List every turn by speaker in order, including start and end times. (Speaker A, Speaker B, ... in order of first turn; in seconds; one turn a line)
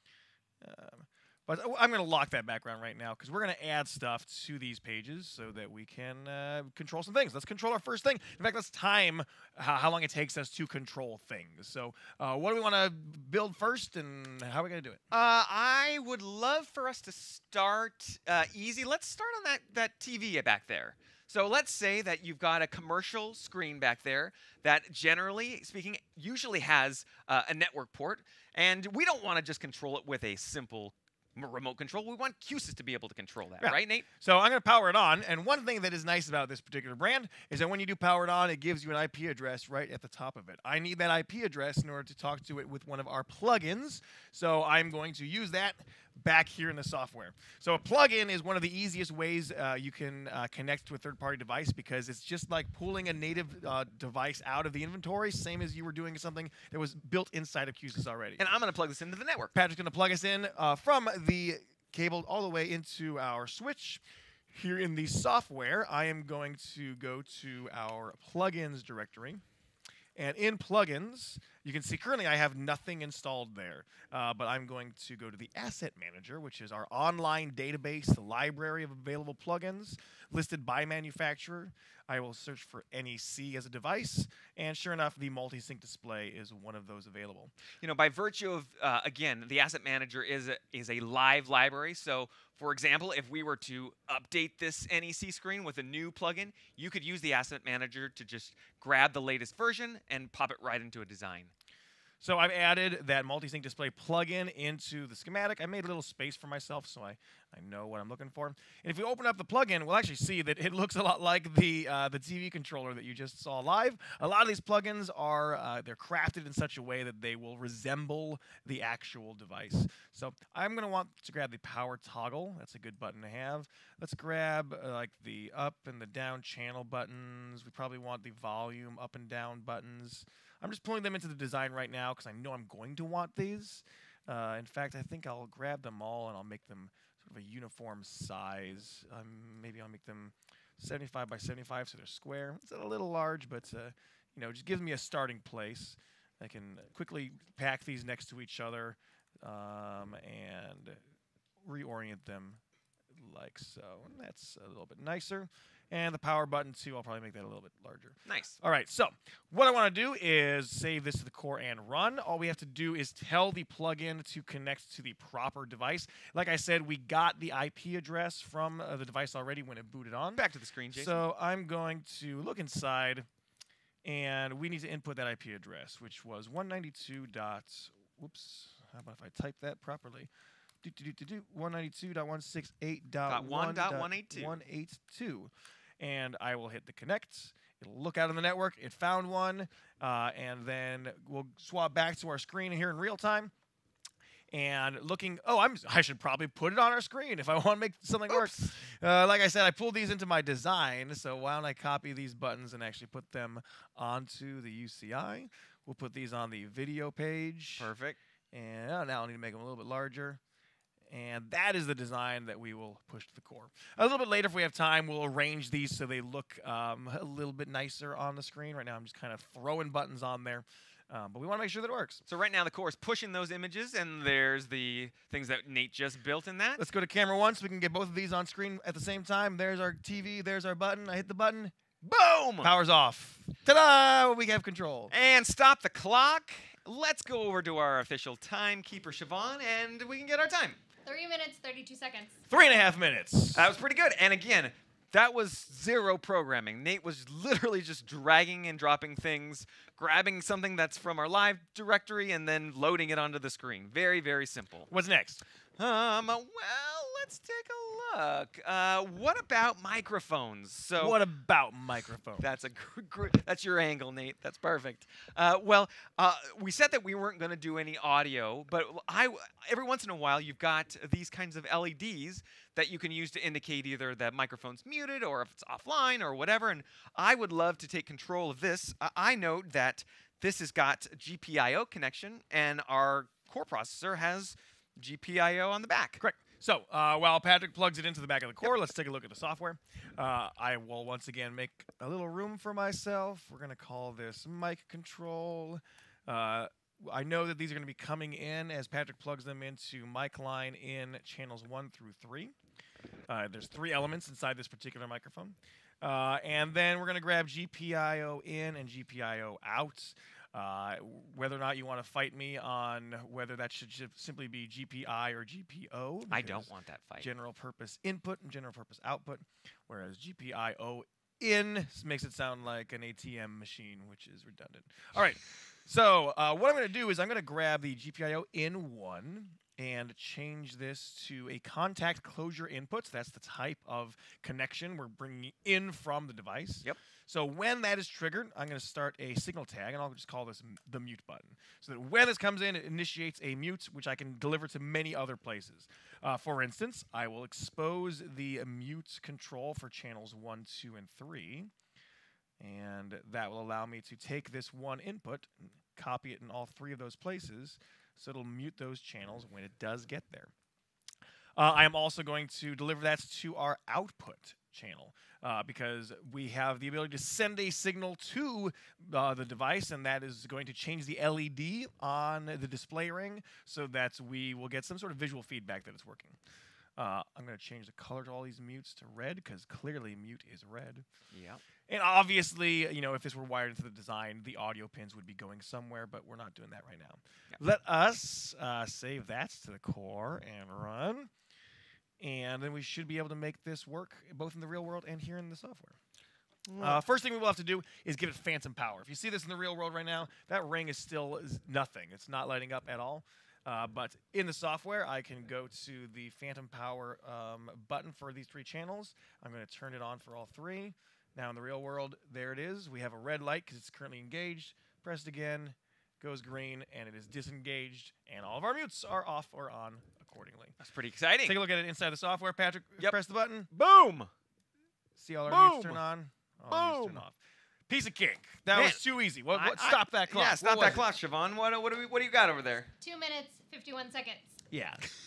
Speaker A: 0.6-15.0
Speaker B: 15.1-34.1
Speaker A: 33.6-58.5
Speaker B: 58.4-59.5
Speaker A: 59.5-69.4
Speaker A: 70.2-87.5
Speaker B: 87.8-101.5
Speaker A: 102.2-151.0
Speaker A: 151.6-152.6
Speaker A: 153.1-170.4
Speaker B: 158.3-158.6
Speaker B: 170.3-171.2
Speaker A: 170.9-173.3
Speaker A: 174.0-180.3
Speaker A: 180.8-193.5
Speaker B: 183.2-184.6
Speaker A: 194.5-207.9
Speaker B: 198.3-198.8
Speaker B: 207.8-208.2
Speaker A: 208.5-210.4
Speaker A: 211.1-222.2
Speaker B: 222.3-226.8
Speaker A: 226.8-231.7
Speaker B: 232.0-232.7
Speaker A: 232.6-235.1
Speaker B: 235.1-240.8
Speaker C: 241.0-242.4
Speaker A: 242.5-243.7
Speaker B: 243.5-254.9
Speaker A: 254.9-255.4
Speaker B: 255.8-261.1
Speaker A: 261.0-262.4
Speaker B: 262.4-286.2
Speaker A: 286.2-302.5
Speaker A: 303.3-316.7
Speaker B: 316.3-317.3
Speaker A: 317.2-351.7
Speaker A: 352.6-360.5
Speaker A: 361.6-376.4
Speaker A: 377.0-381.1
Speaker B: 381.3-381.6
Speaker A: 381.9-391.3
Speaker A: 392.2-396.0
Speaker B: 396.7-397.0
Speaker A: 396.8-420.8
Speaker B: 420.8-421.6
Speaker A: 421.4-423.7
Speaker B: 423.7-424.3
Speaker A: 425.2-427.4
Speaker B: 425.5-426.0
Speaker B: 426.7-427.2
Speaker A: 427.9-431.1
Speaker B: 428.7-429.0
Speaker B: 429.5-432.9
Speaker C: 433.0-434.6
Speaker A: 434.7-435.1